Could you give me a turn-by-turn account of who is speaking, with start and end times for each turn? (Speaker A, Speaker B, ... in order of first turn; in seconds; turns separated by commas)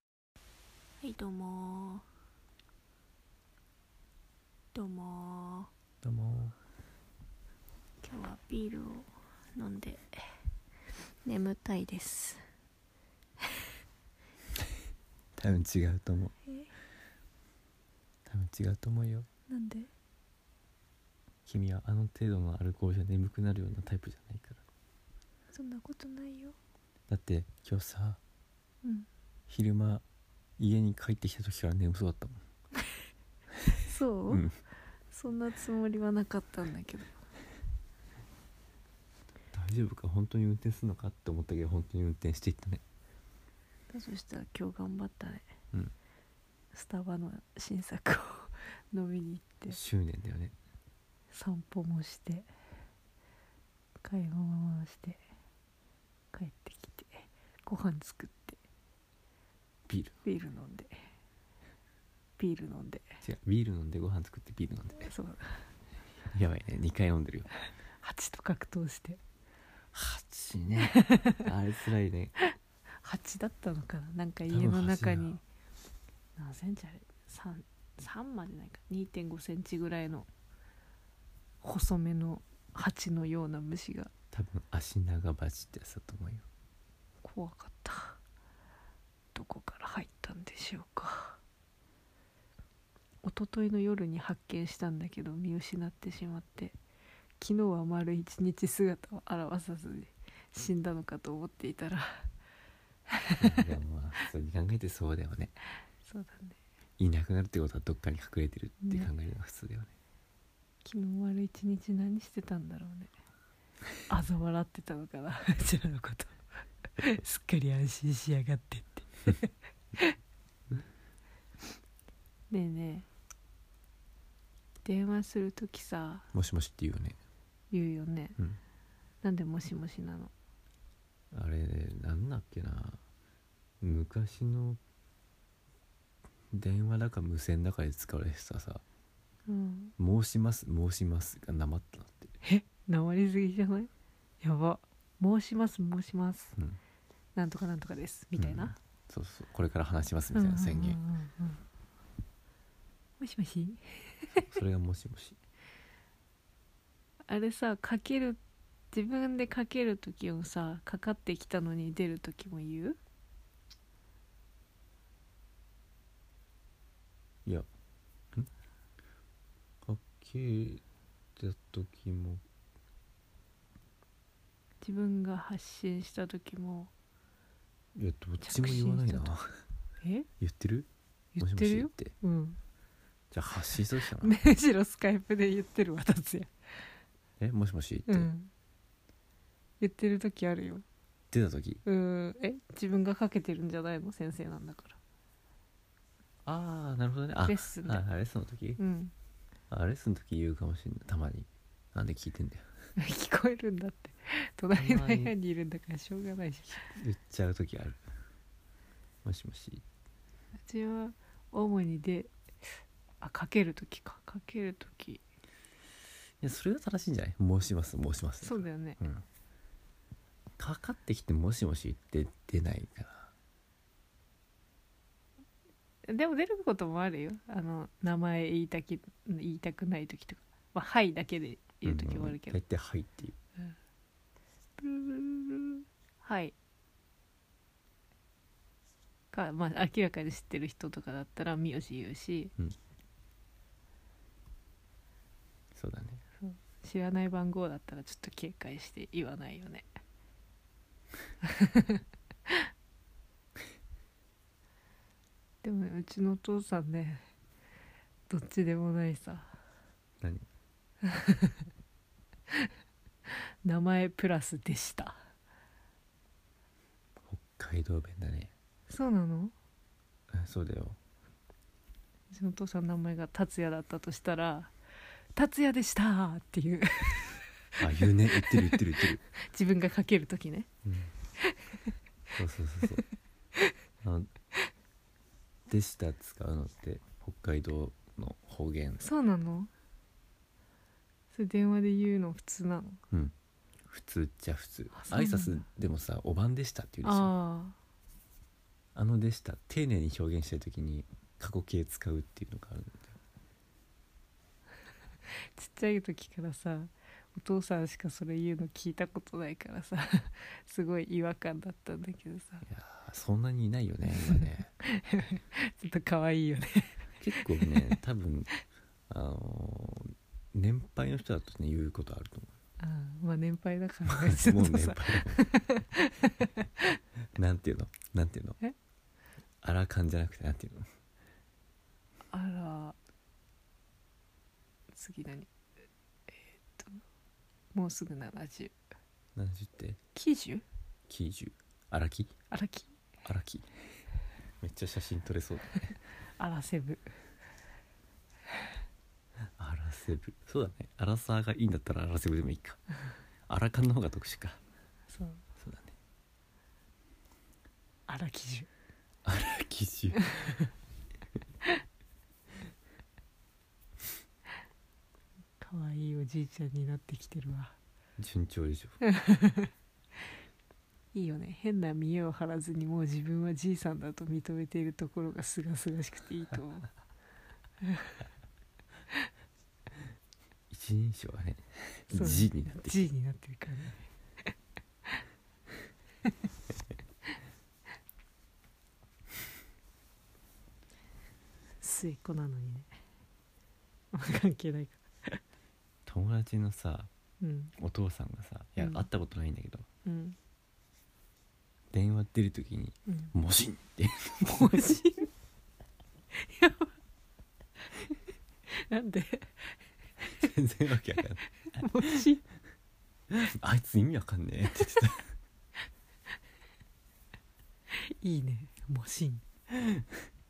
Speaker A: 1.0-2.0, Speaker A: 4.7-5.7, Speaker B: 6.0-6.5, Speaker A: 8.0-10.2, Speaker A: 11.2-12.4, Speaker B: 15.4-16.4, Speaker A: 16.5-16.7, Speaker B: 18.3-19.3, Speaker A: 19.5-19.9, Speaker B: 21.5-24.6, Speaker A: 25.5-26.6, Speaker B: 27.1-28.2, Speaker A: 28.8-29.1, Speaker B: 29.5-30.0, Speaker B: 30.6-32.4, Speaker A: 33.8-34.5, Speaker B: 34.3-34.6, Speaker A: 35.1-37.2, Speaker B: 39.5-42.8, Speaker A: 43.9-45.5, Speaker A: 46.7-49.8, Speaker B: 49.7-50.5, Speaker A: 51.3-52.5, Speaker A: 54.0-55.2, Speaker A: 56.3-58.6, Speaker B: 59.9-60.2, Speaker A: 60.2-61.0, Speaker A: 62.4-63.2, Speaker B: 63.2-65.1, Speaker A: 65.0-65.7, Speaker B: 66.3-67.5, Speaker A: 68.0-69.2, Speaker B: 69.9-72.3, Speaker A: 70.8-71.5, Speaker A: 73.0-75.4, Speaker B: 74.5-75.3, Speaker A: 76.4-80.3, Speaker A: 81.6-84.1, Speaker B: 84.3-86.5, Speaker A: 87.2-88.2, Speaker A: 89.3-91.4, Speaker A: 93.2-96.8, Speaker A: 97.4-102.3, Speaker A: 103.1-103.7, Speaker B: 103.4-105.5, Speaker A: 106.0-106.6, Speaker B: 107.0-109.9, Speaker A: 108.8-109.1, Speaker A: 110.8-113.1, Speaker A: 114.1-116.4, Speaker A: 117.0-120.2, Speaker A: 122.5-123.1, Speaker A: 124.8-126.3, Speaker B: 126.3-127.2, Speaker A: 127.7-128.4, Speaker A: 129.2-130.3, Speaker B: 131.3-133.0, Speaker B: 133.8-134.8, Speaker B: 136.5-138.8, Speaker A: 139.5-139.9, Speaker B: 140.0-142.3, Speaker A: 142.4-143.9, Speaker A: 144.4-146.6, Speaker A: 147.3-148.8, Speaker B: 148.4-151.0, Speaker A: 150.3-151.6, Speaker A: 153.2-154.4, Speaker B: 154.4-155.4, Speaker A: 157.3-158.4, Speaker A: 158.9-163.0, Speaker B: 169.8-170.8, Speaker B: 171.4-172.4, Speaker A: 174.8-176.9, Speaker B: 178.0-179.5, Speaker A: 178.4-179.3, Speaker A: 180.0-180.3, Speaker B: 180.4-180.9, Speaker A: 181.3-182.6, Speaker B: 181.4-182.1, Speaker B: 183.3-184.4, Speaker A: 184.2-186.5, Speaker B: 187.4-188.3, Speaker A: 188.1-188.5, Speaker A: 189.8-190.8, Speaker B: 191.3-191.8, Speaker A: 191.8-195.0, Speaker B: 196.5-198.8, Speaker A: 197.4-198.1, Speaker A: 198.8-199.1, Speaker B: 199.7-202.6, Speaker A: 203.0-206.8, Speaker B: 204.8-205.3, Speaker B: 206.8-208.0, Speaker B: 209.2-209.8, Speaker A: 210.7-212.3, Speaker A: 213.2-215.2, Speaker B: 216.4-219.2, Speaker A: 218.4-219.0, Speaker B: 220.6-223.3, Speaker A: 226.1-232.6, Speaker B: 231.8-233.3, Speaker A: 234.8-236.6, Speaker A: 239.3-242.5, Speaker B: 245.8-246.2, Speaker A: 246.4-249.9, Speaker A: 251.4-252.5, Speaker A: 255.6-257.2, Speaker A: 258.3-259.5, Speaker A: 261.0-261.6, Speaker A: 263.6-265.3, Speaker B: 267.3-268.5, Speaker A: 268.9-269.5, Speaker B: 270.3-271.0, Speaker A: 272.3-274.7, Speaker A: 275.4-277.8, Speaker B: 277.8-279.2, Speaker A: 278.4-280.7, Speaker B: 280.9-281.1, Speaker A: 281.4-281.9, Speaker B: 282.4-283.1, Speaker B: 284.0-284.3, Speaker B: 285.7-289.0, Speaker A: 289.0-289.7, Speaker A: 291.3-293.0, Speaker B: 293.9-297.3, Speaker A: 294.9-295.6, Speaker A: 297.0-297.8, Speaker B: 298.9-303.1, Speaker A: 305.6-312.6, Speaker B: 312.6-314.7, Speaker A: 314.8-318.0, Speaker B: 317.2-318.5, Speaker B: 319.1-322.5, Speaker A: 322.8-326.8, Speaker B: 324.1-325.4, Speaker B: 327.4-328.6, Speaker B: 329.6-330.9, Speaker A: 332.3-333.0, Speaker A: 334.9-335.5, Speaker A: 336.3-337.0, Speaker A: 337.7-338.7, Speaker B: 339.4-340.0, Speaker A: 340.1-340.6, Speaker B: 341.1-342.3, Speaker A: 342.5-342.9, Speaker B: 343.2-343.7, Speaker B: 344.6-346.0, Speaker A: 346.4-347.1, Speaker B: 349.6-352.8, Speaker B: 353.5-354.6, Speaker A: 355.1-355.4, Speaker B: 355.6-355.9, Speaker A: 358.1-358.7, Speaker B: 359.2-360.4, Speaker A: 360.2-360.5, Speaker A: 365.6-367.8, Speaker B: 368.2-369.0, Speaker A: 369.0-369.7, Speaker A: 371.1-376.9, Speaker A: 377.8-378.2, Speaker B: 380.7-383.1, Speaker A: 382.1-384.0, Speaker A: 391.8-392.9, Speaker A: 394.1-395.4, Speaker B: 396.1-397.1, Speaker A: 397.4-397.7, Speaker B: 397.8-399.9, Speaker A: 398.8-399.1, Speaker A: 400.1-400.4, Speaker B: 401.9-405.0, Speaker A: 404.5-405.3, Speaker A: 406.3-406.9, Speaker A: 408.7-409.8, Speaker B: 410.4-412.2, Speaker A: 411.7-412.4, Speaker B: 413.3-415.3, Speaker A: 417.9-419.4